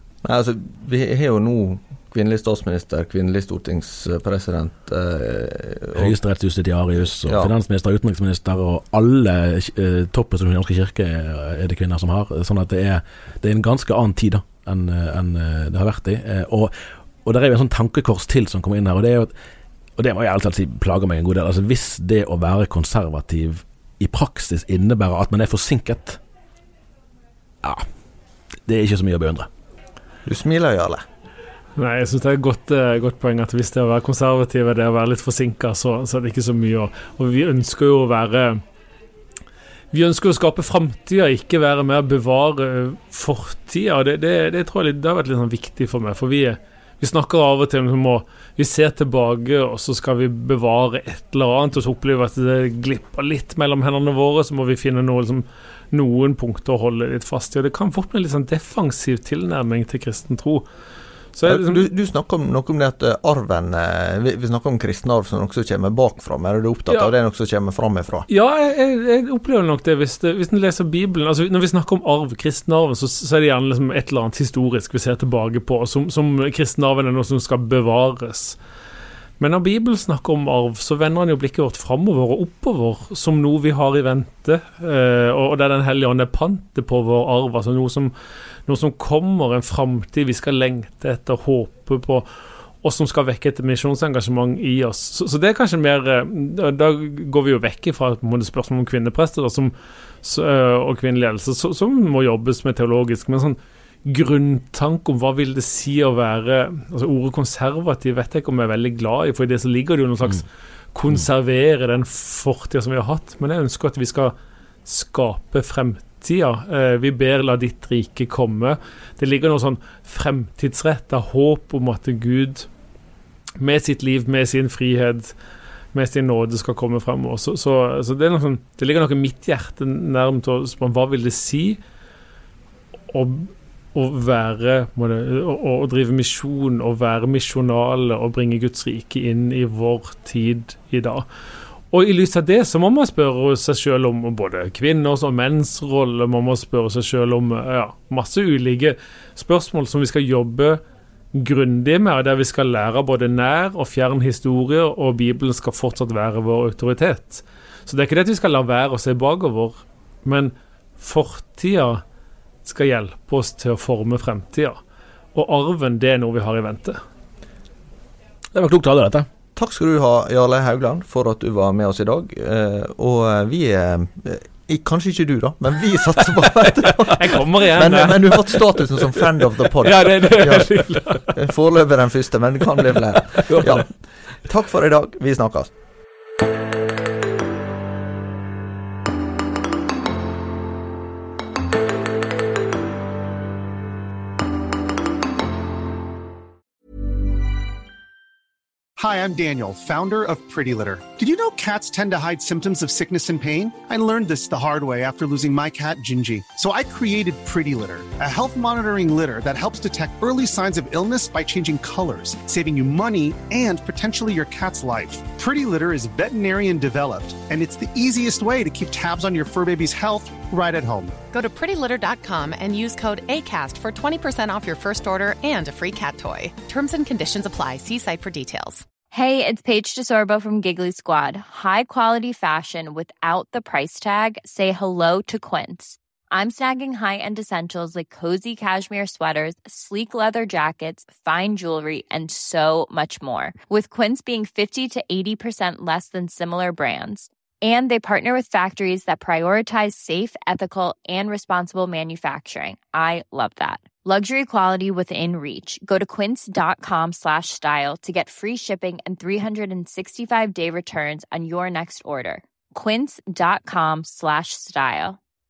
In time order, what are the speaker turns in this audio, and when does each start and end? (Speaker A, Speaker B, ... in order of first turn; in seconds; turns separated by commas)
Speaker A: 0.2-6.2, Speaker B: 6.0-19.3, Speaker A: 7.0-7.5, Speaker B: 20.0-26.2, Speaker B: 28.6-29.5, Speaker A: 30.2-31.0, Speaker C: 31.8-38.6, Speaker C: 39.9-60.6, Speaker C: 61.3-61.9, Speaker A: 61.4-68.3, Speaker C: 68.3-78.6, Speaker C: 79.4-88.1, Speaker C: 88.7-92.3, Speaker C: 92.8-122.7, Speaker C: 123.6-125.3, Speaker C: 125.9-131.8, Speaker C: 133.1-141.2, Speaker C: 141.9-150.8, Speaker C: 151.3-162.0, Speaker C: 162.6-164.8, Speaker C: 165.3-167.0, Speaker B: 168.5-169.2, Speaker A: 169.6-185.7, Speaker C: 177.0-181.3, Speaker C: 183.3-183.7, Speaker D: 199.0-221.2, Speaker E: 221.3-228.8, Speaker F: 229.1-265.2